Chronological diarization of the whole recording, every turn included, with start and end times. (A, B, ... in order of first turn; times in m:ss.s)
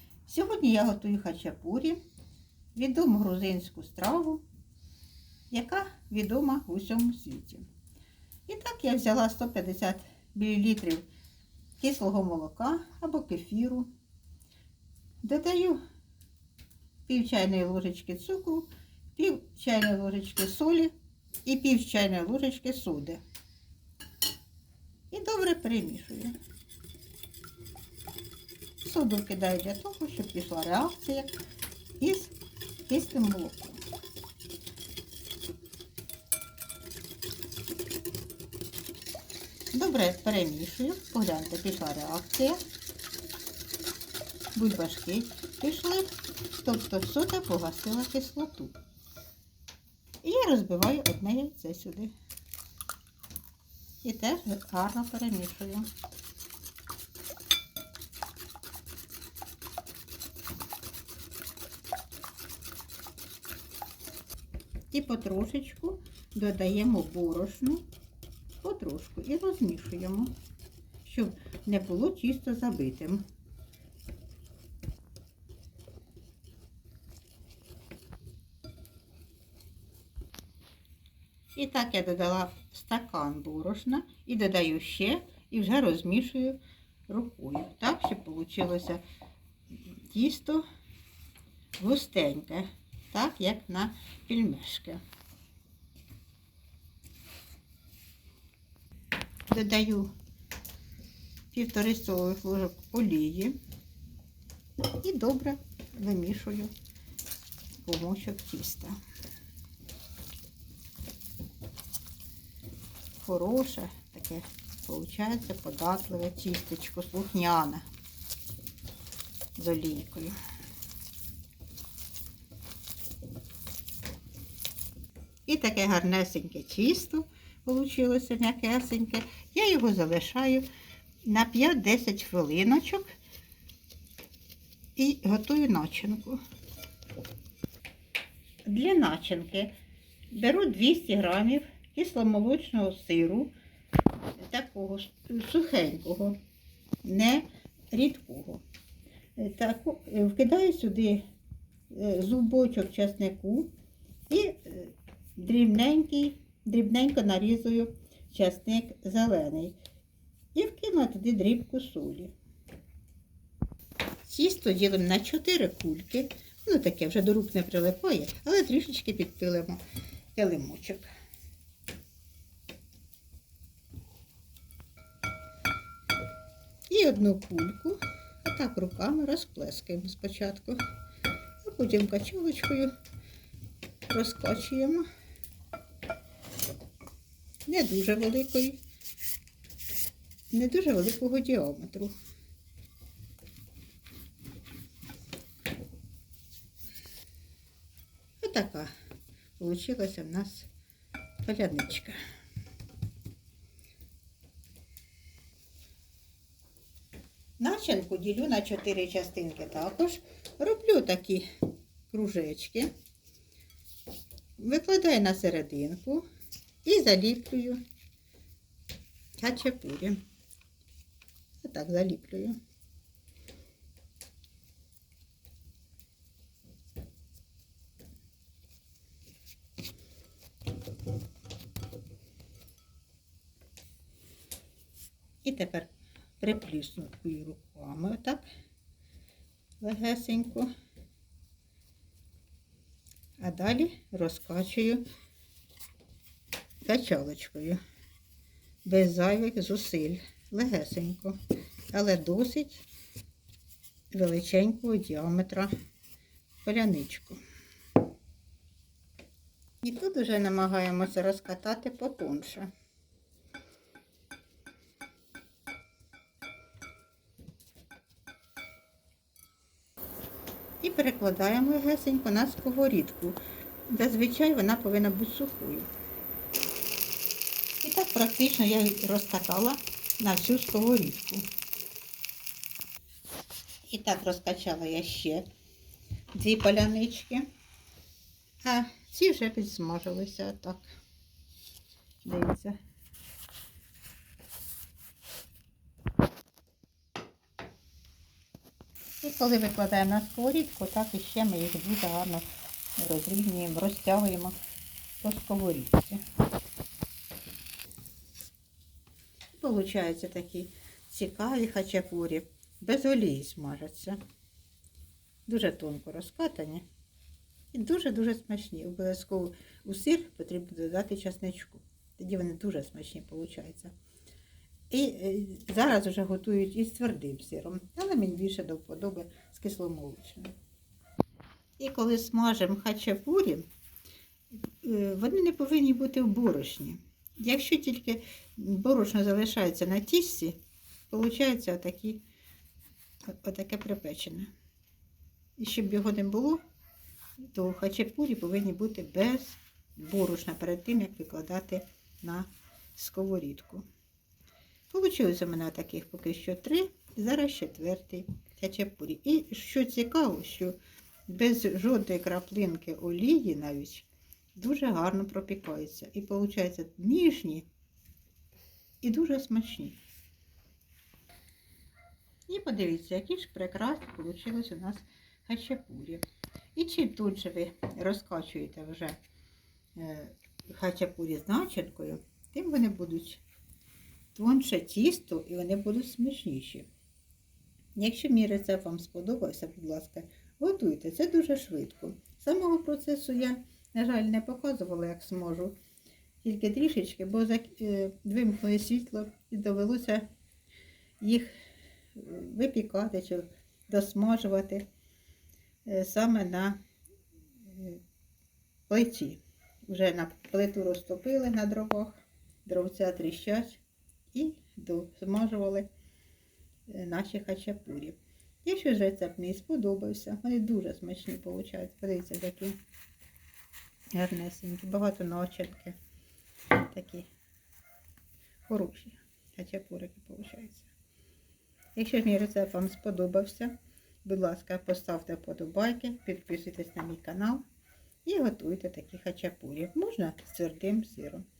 0:00.2-0:02.0 A
0:02.7-0:04.4 A
0:05.5-0:07.6 A
0:08.5-0:11.1 A
0:11.8-0:13.9 A
0:15.2-0:15.8 A
0:17.1-0:20.9 A
0:21.4-0:23.2 A
0:25.1-0:26.3 A
0:28.8-0:31.3 A
0:32.0-0:32.3 A
0:32.8-0:33.8 A
0:39.7-0:42.6 A
0:44.5-0:48.7 A
0:50.2-0:52.1 A
0:54.0-0:55.9 A
1:04.9-1:07.8 A
1:08.6-1:10.3 A
1:11.0-1:13.2 A
1:21.5-1:29.0 A
1:30.1-1:30.6 A
1:31.8-1:35.0 A
1:39.5-1:40.1 A
1:41.5-1:43.6 A
1:44.9-1:46.7 A
1:47.8-1:49.0 A
1:53.2-1:57.8 A
1:59.6-2:00.3 A
2:05.4-2:10.6 A
2:11.2-2:13.1 A
2:15.0-2:16.4 A
2:18.6-2:19.7 A
2:20.3-2:23.5 A
2:24.4-2:26.4 A
2:27.0-2:28.6 A
2:29.4-2:31.2 A
2:31.9-2:33.7 A
2:34.3-2:39.8 A
2:40.5-2:42.3 A
2:44.2-2:49.8 A
2:50.3-2:51.1 A
2:56.9-3:00.8 A
3:01.6-3:02.9 A
3:04.1-3:05.0 A
3:07.6-3:08.8 A
3:10.5-3:12.1 A
3:18.4-3:18.9 A
3:19.6-3:20.7 A
3:21.4-3:22.2 A
3:27.6-3:31.5 A
3:32.1-3:32.9 A
3:34.6-3:36.2 A
3:36.8-3:37.8 A
3:39.4-3:40.2 A
3:41.6-3:42.6 A
3:55.4-3:58.5 A
3:59.8-4:00.7 A
4:03.4-4:05.0 A
4:06.8-4:07.8 A
4:08.8-4:11.4 A
4:11.9-4:12.8 A
4:14.1-4:15.7 A
4:16.6-4:17.4 A
4:19.8-4:22.7 A
4:30.8-4:33.4 A
4:33.9-4:35.9 A
4:37.8-4:41.5 A
4:43.9-4:45.4 A
4:46.3-4:47.5 A
4:48.6-4:50.9 A
4:52.2-4:52.8 A
4:59.2-5:02.4 A
5:03.0-5:04.5 A
5:05.2-5:06.2 A
5:09.5-5:14.2 A
5:15.4-5:16.8 A
5:17.7-5:23.9 A
5:24.9-5:30.5 A
5:31.8-5:33.6 A
5:34.8-5:40.6 A
5:41.1-5:42.2 A
5:43.3-5:44.5 A
5:45.6-5:46.6 A
5:47.5-5:53.8 A
5:54.9-6:00.8 A
6:01.3-6:07.6 A
6:09.0-6:10.0 A
6:12.5-6:16.2 A
6:16.7-6:19.2 A
6:20.0-6:23.4 A
6:24.3-6:26.9 A
6:27.9-6:35.8 A
6:36.4-6:40.2 A
6:41.2-6:41.5 A
6:42.1-6:44.8 A
6:45.8-6:46.8 A
6:47.6-6:48.0 A
6:48.9-6:53.8 A
6:54.3-6:55.9 A
6:56.9-7:02.8 A
7:04.1-7:06.0 A
7:06.8-7:07.3 A
7:08.7-7:10.9 A
7:11.9-7:17.6 A
7:18.2-7:21.4 A